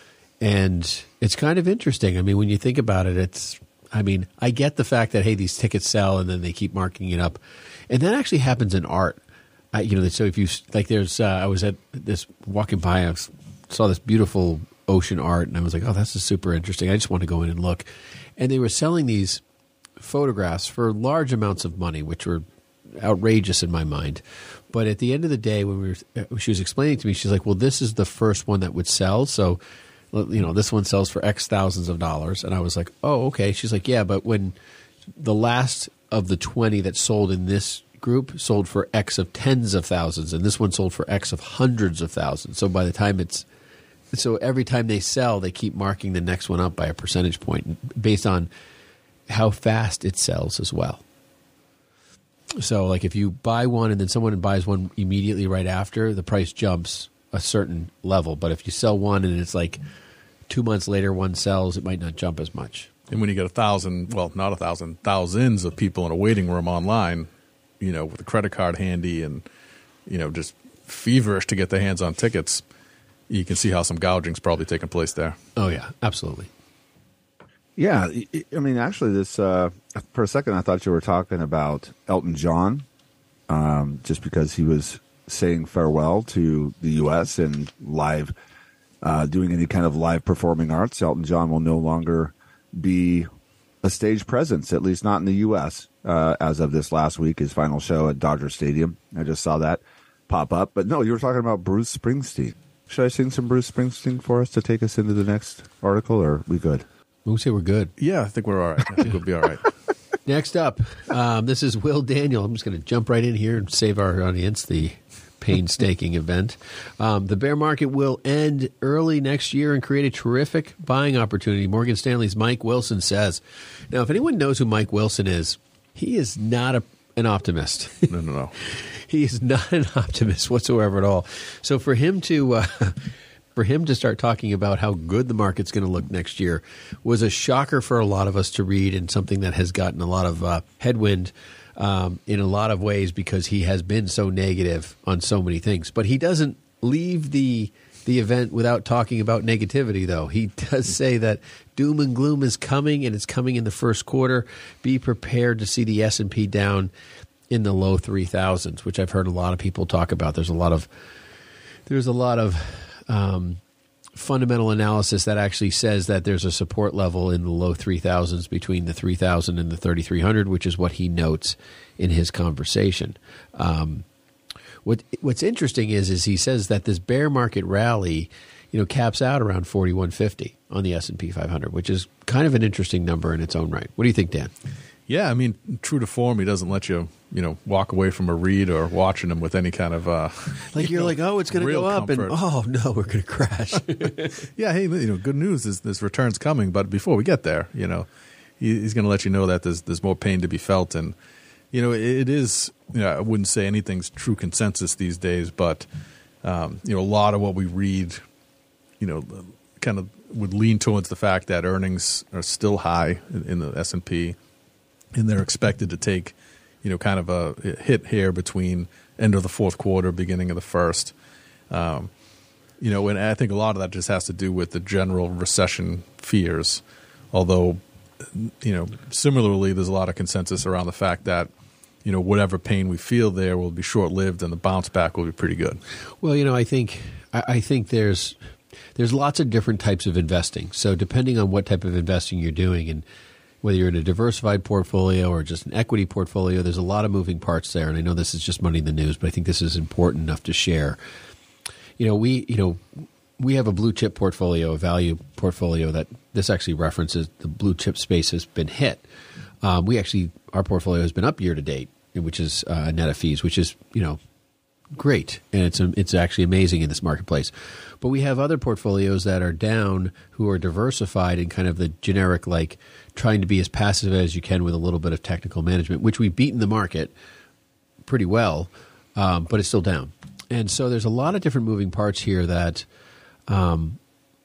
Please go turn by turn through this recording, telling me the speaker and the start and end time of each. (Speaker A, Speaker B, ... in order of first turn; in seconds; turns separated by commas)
Speaker A: 0.4-9.2, Speaker A: 9.7-19.4, Speaker A: 20.0-29.6, Speaker A: 30.1-34.5, Speaker A: 35.2-43.5, Speaker A: 44.1-48.5, Speaker A: 49.3-51.0, Speaker A: 52.6-59.8, Speaker A: 60.5-62.9, Speaker B: 63.1-67.3, Speaker B: 67.8-69.4, Speaker B: 70.1-72.6, Speaker B: 73.3-75.3, Speaker A: 75.6-76.5, Speaker C: 77.8-82.8, Speaker C: 83.5-88.3, Speaker C: 89.0-93.3, Speaker C: 93.8-106.8, Speaker A: 107.2-107.9, Speaker B: 108.0-109.7, Speaker A: 110.2-128.1, Speaker B: 128.1-128.5, Speaker A: 128.6-156.9, Speaker A: 157.5-160.9, Speaker A: 161.9-163.6, Speaker A: 164.2-174.1, Speaker A: 174.8-184.5, Speaker B: 185.1-192.3, Speaker A: 190.7-194.3, Speaker B: 194.4-198.1, Speaker B: 198.6-201.1, Speaker B: 201.7-205.8, Speaker B: 206.4-208.2, Speaker B: 209.0-214.3, Speaker B: 215.1-221.1, Speaker B: 221.7-222.1, Speaker B: 222.8-226.8, Speaker B: 227.3-227.8, Speaker B: 228.3-231.5, Speaker B: 232.0-235.8, Speaker A: 236.2-238.4, Speaker A: 238.9-243.0, Speaker A: 243.6-251.0, Speaker A: 252.0-259.0, Speaker A: 259.6-264.2, Speaker A: 264.9-277.1, Speaker A: 278.1-282.9, Speaker A: 283.5-284.0